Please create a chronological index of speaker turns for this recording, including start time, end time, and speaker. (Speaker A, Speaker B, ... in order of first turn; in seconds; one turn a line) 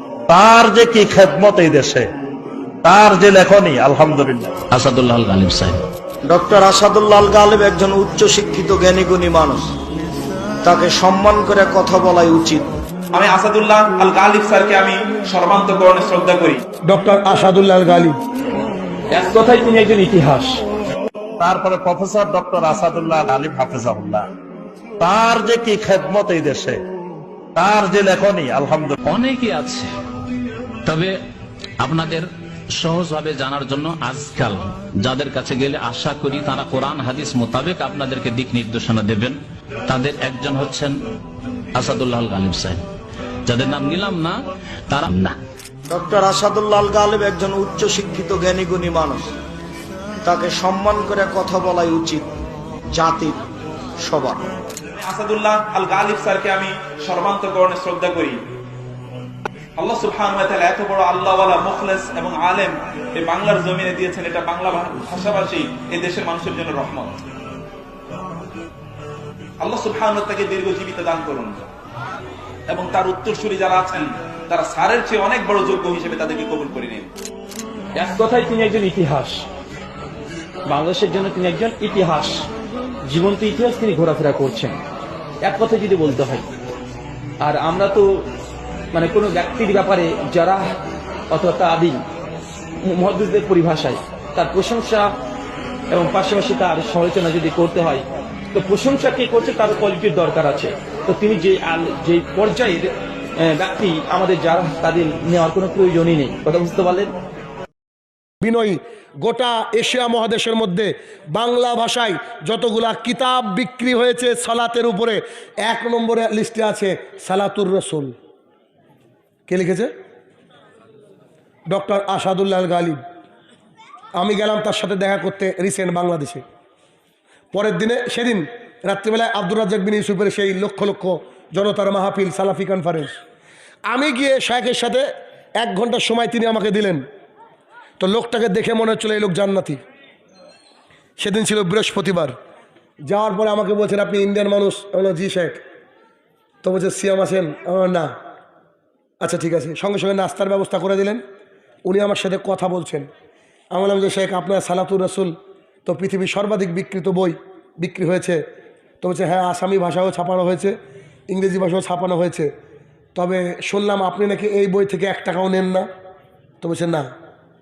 Speaker A: 0.3-2.1
Speaker A: 2.8-4.5
Speaker B: 4.7-5.8
Speaker C: 6.2-9.7
Speaker C: 10.6-12.7
Speaker D: 13.1-16.6
Speaker E: 16.9-18.1
Speaker F: 19.1-20.6
Speaker A: 21.4-24.3
Speaker A: 25.0-26.8
Speaker A: 27.5-28.9
Speaker B: 29.0-29.9
Speaker B: 30.8-31.1
Speaker B: 31.8-39.4
Speaker B: 39.9-40.9
Speaker B: 41.7-42.8
Speaker B: 43.5-44.4
Speaker B: 44.9-45.4
Speaker C: 45.9-49.3
Speaker C: 50.2-52.3
Speaker C: 52.9-53.4
Speaker C: 54.0-54.4
Speaker D: 55.0-58.4
Speaker D: 59.8-67.1
Speaker D: 69.6-71.6
Speaker D: 72.7-77.1
Speaker F: 78.0-79.4
Speaker F: 80.7-82.4
Speaker F: 83.0-84.8
Speaker F: 85.4-86.5
Speaker F: 87.4-88.2
Speaker F: 88.9-90.7
Speaker F: 91.3-92.0
Speaker F: 92.8-95.1
Speaker F: 95.9-107.1
Speaker E: 108.4-118.1
Speaker E: 119.5-119.9
Speaker E: 121.7-123.0
Speaker E: 124.2-126.4
Speaker E: 127.5-133.1
Speaker E: 133.9-135.1
Speaker E: 135.6-137.0
Speaker E: 138.0-139.8
Speaker E: 141.2-142.3
Speaker E: 143.1-145.6
Speaker E: 146.6-148.1
Speaker E: 149.2-151.2
Speaker E: 151.8-153.1
Speaker E: 153.7-158.4
Speaker E: 159.0-160.7
Speaker E: 161.3-162.5
Speaker E: 163.1-165.9
Speaker E: 166.6-167.1